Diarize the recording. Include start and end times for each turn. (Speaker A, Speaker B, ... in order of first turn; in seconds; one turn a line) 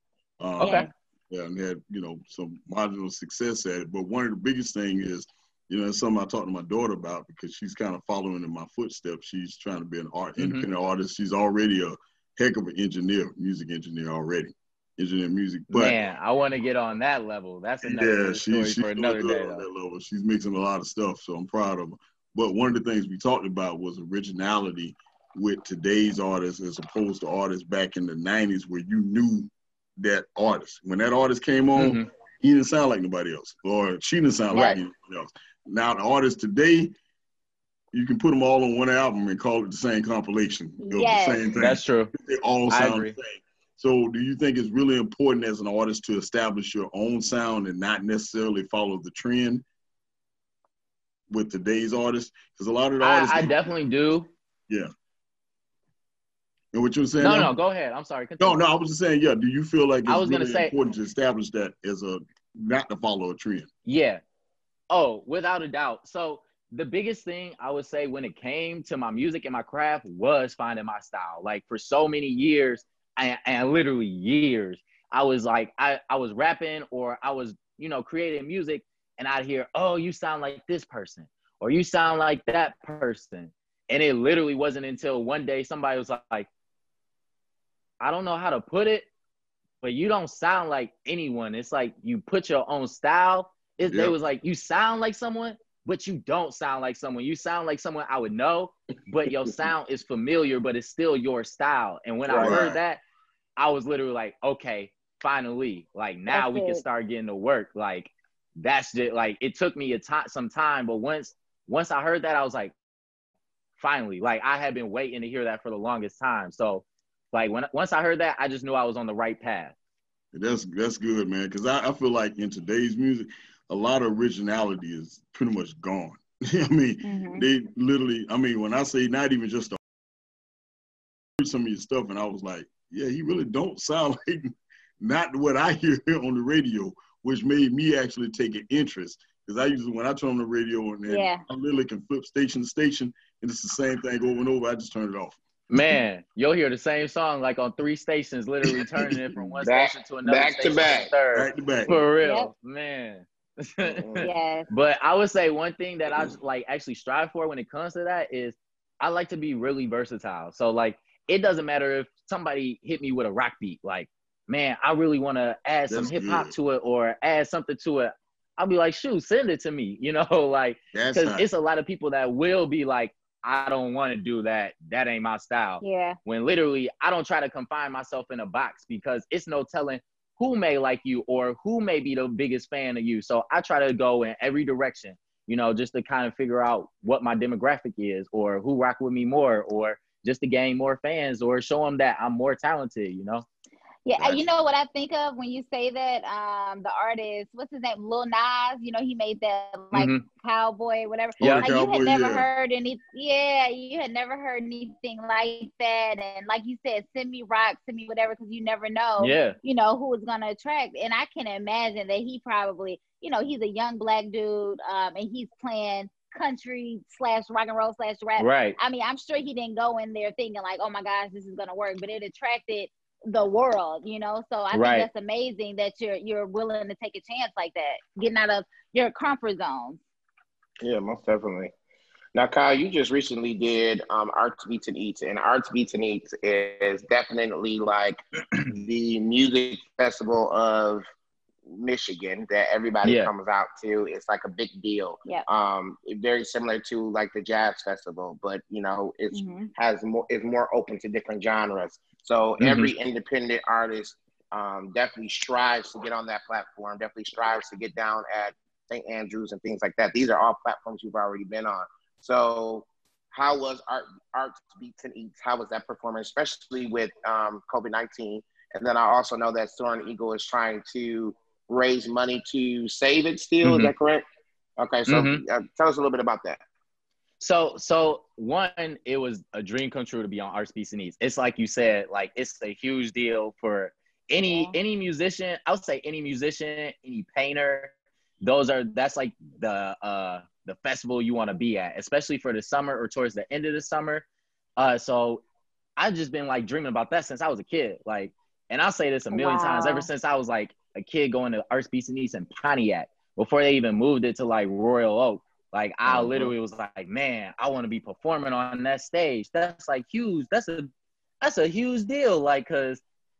Speaker A: 0.4-16.0
Speaker B: 0.6-0.9
Speaker C: 0.6-0.9
Speaker B: 10.4-10.7
Speaker B: 15.7-19.6
Speaker A: 17.8-36.9
Speaker B: 31.8-32.1
Speaker C: 34.5-34.8
Speaker A: 37.9-49.6
Speaker C: 40.8-41.5
Speaker B: 41.6-42.1
Speaker B: 42.7-43.1
Speaker A: 51.3-53.5
Speaker B: 53.0-54.3
Speaker A: 56.7-57.5
Speaker B: 57.2-58.6
Speaker A: 58.4-63.7
Speaker B: 60.0-60.7
Speaker B: 63.9-64.2
Speaker B: 64.9-86.5
Speaker B: 88.0-89.1
Speaker B: 89.8-103.0
Speaker A: 93.8-94.1
Speaker D: 102.3-102.8
Speaker A: 102.3-102.8
Speaker B: 103.6-112.7
Speaker C: 106.3-106.8
Speaker B: 113.8-119.7
Speaker A: 120.3-129.8
Speaker C: 127.0-127.4
Speaker A: 131.4-146.0
Speaker C: 141.1-141.4
Speaker B: 145.7-193.4
Speaker A: 148.7-149.2
Speaker D: 149.6-151.1
Speaker A: 151.3-152.0
Speaker C: 152.2-152.5
Speaker D: 153.8-154.3
Speaker C: 154.2-154.7
Speaker A: 165.9-166.5
Speaker A: 170.9-171.5
Speaker C: 175.8-176.2
Speaker C: 194.0-230.0
Speaker B: 199.9-200.2
Speaker A: 201.4-202.5
Speaker B: 201.4-201.7
Speaker B: 209.2-209.6
Speaker B: 218.4-218.8
Speaker B: 224.7-225.1
Speaker D: 230.8-231.7
Speaker D: 232.3-241.1
Speaker D: 241.6-274.2
Speaker B: 243.0-243.3
Speaker C: 249.3-249.7
Speaker B: 252.6-252.9
Speaker B: 273.6-273.9
Speaker D: 274.8-276.6
Speaker B: 275.1-275.4
Speaker B: 277.4-294.2
Speaker C: 284.4-284.8
Speaker B: 294.8-295.4
Speaker B: 296.0-310.9
Speaker C: 299.3-300.1
Speaker A: 306.1-306.5
Speaker B: 311.4-313.0